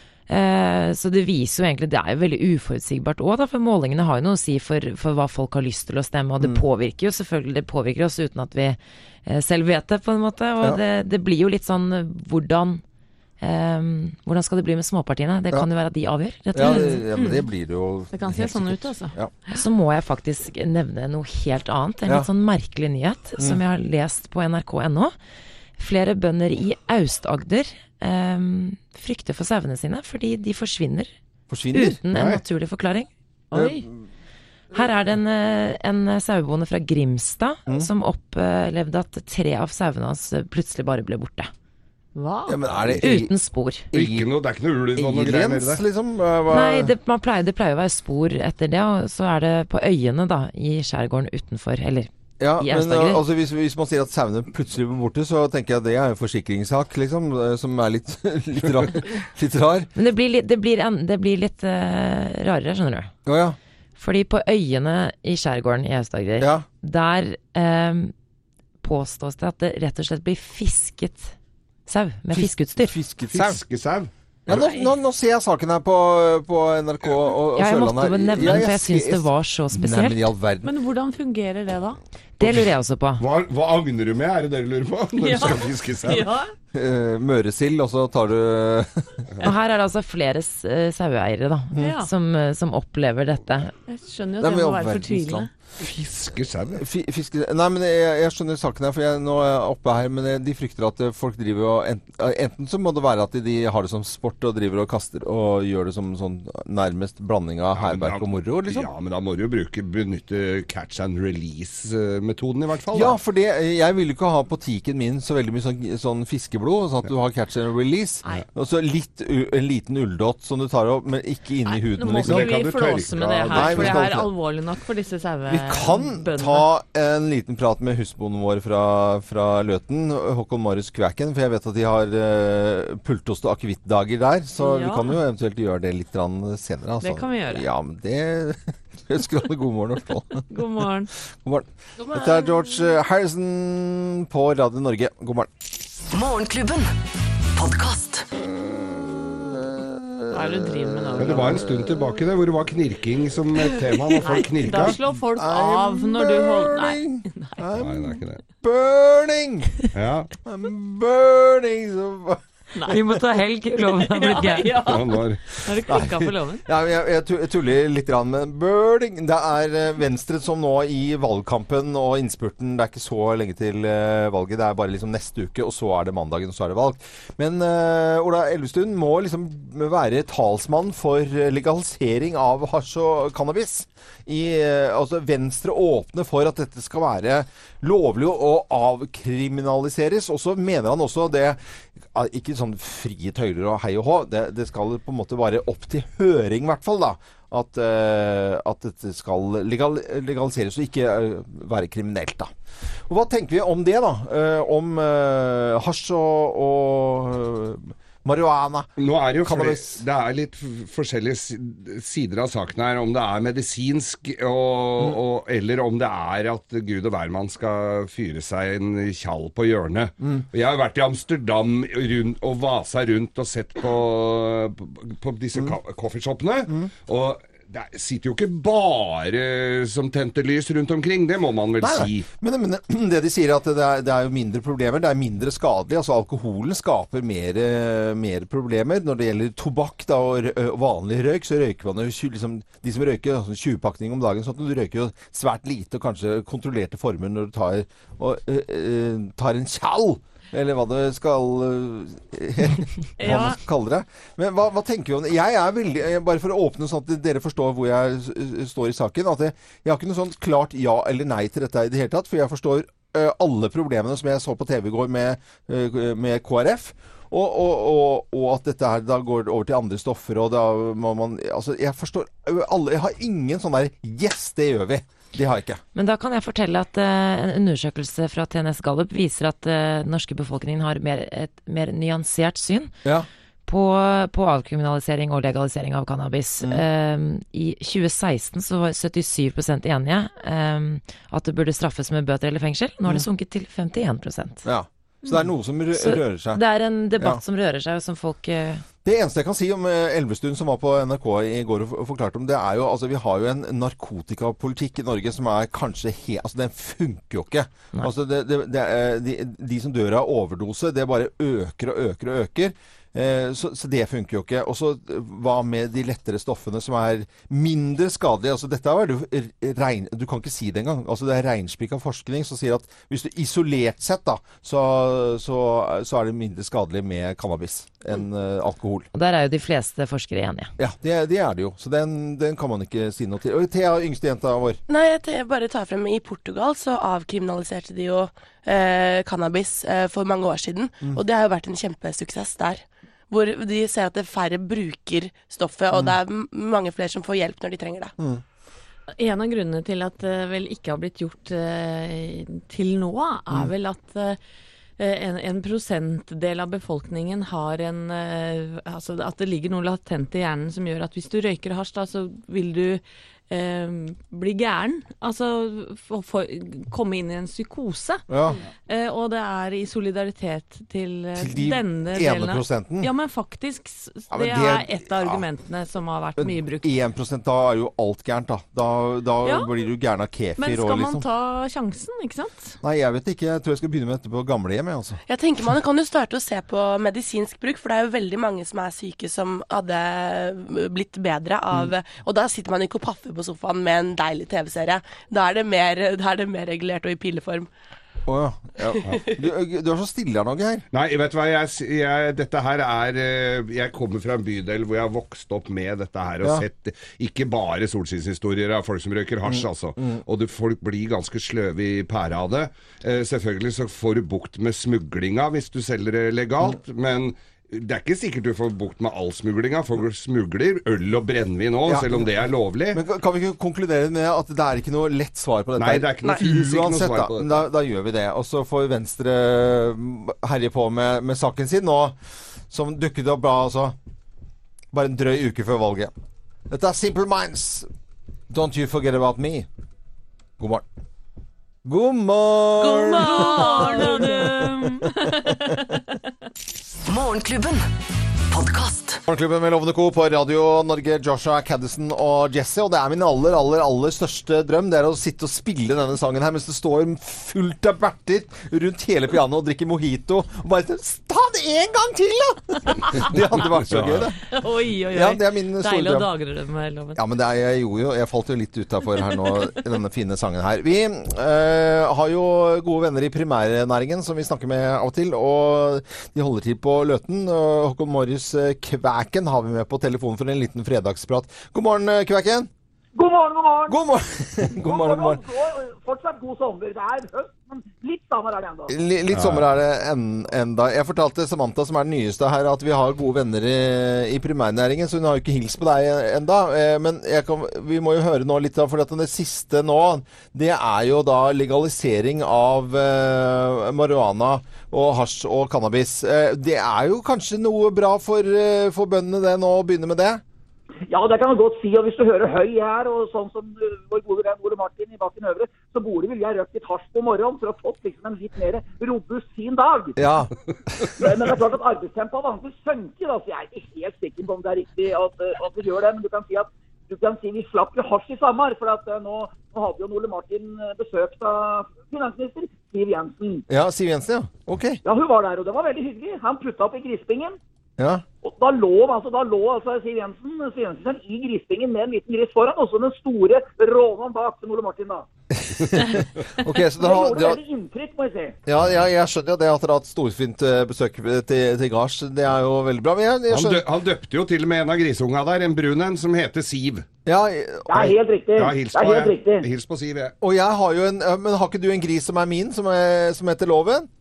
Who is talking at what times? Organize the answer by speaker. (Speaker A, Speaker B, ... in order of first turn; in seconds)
Speaker A: 0.3-12.8, 13.4-17.1, 19.5-25.1, 25.8-31.1, 31.7-33.1, 34.7-41.5, 43.0-43.9, 46.5-53.2, 60.0-63.1, 64.0-68.1, 68.8-71.3, 71.9-73.0, 77.5-80.3, 82.4-83.2, 89.4-93.7, 162.9-164.8, 275.9-282.9, 283.7-294.6, 295.9-298.8, 329.1-330.7
Speaker B: 16.5-19.3, 31.5-32.0, 33.5-33.9, 42.5-43.3, 43.9-44.3, 45.0-46.9, 52.4-59.9, 63.2-63.6, 66.4-66.7, 72.3-73.6, 74.5-80.7, 86.7-89.2, 94.4-95.5, 96.8-108.9, 112.9-122.6, 123.5-124.3, 125.5-140.6, 141.4-145.5, 148.7-152.2, 154.7-159.8, 160.4-162.4, 165.7-191.6, 192.1-202.5, 203.1-210.0, 231.8-275.8, 294.6-296.6, 299.0-329.1, 330.8-334.8, 345.9-346.2, 368.3-368.6, 371.4-373.1, 374.3-375.4, 376.4-381.2, 382.8-385.2, 398.3-400.9, 409.4-410.2, 421.9-422.3, 422.9-432.1, 432.7-433.9, 434.9-436.1, 436.7-437.9, 438.5-439.7, 440.6-440.9, 441.8-444.9, 449.3-464.4, 465.1-466.3, 467.1-482.7, 483.9-485.4, 488.9-510.4, 520.2-521.1, 533.7-535.0, 538.0-538.2, 545.5-547.6, 548.6-553.9, 557.3-558.1, 560.4-564.1
Speaker C: 16.6-17.4, 18.1-19.6, 33.5-33.9, 42.1-42.6, 80.6-82.0, 85.1-86.5, 91.8-92.1, 93.9-95.5, 121.6-126.7, 134.6-135.2, 137.0-137.7, 140.5-141.1, 150.3-151.6, 153.6-157.6, 162.7-163.1, 164.0-166.6, 253.2-253.6, 349.2-354.4, 355.0-368.2, 368.9-376.9, 379.4-379.7, 380.6-382.8, 442.8-446.1, 464.4-467.2
Speaker D: 32.1-32.4, 43.9-45.8, 73.3-74.6, 82.4-82.7, 83.2-86.3, 95.8-96.8, 107.8-113.2, 122.2-124.0, 151.2-155.0, 157.7-158.4, 159.9-160.3, 164.9-165.4, 209.0-232.3, 400.9-423.0, 425.8-427.6, 463.7-464.3, 489.3-489.6, 553.5-557.1, 558.6-560.3
Speaker E: 146.1-146.9, 147.5-148.2, 447.1-447.9, 448.5-449.2
Speaker F: 334.9-348.1, 385.3-397.7
Speaker G: 483.1-484.0, 484.8-488.9, 511.1-520.2, 521.2-533.6, 535.0-537.6, 538.4-545.3, 547.0-548.6, 557.9-559.7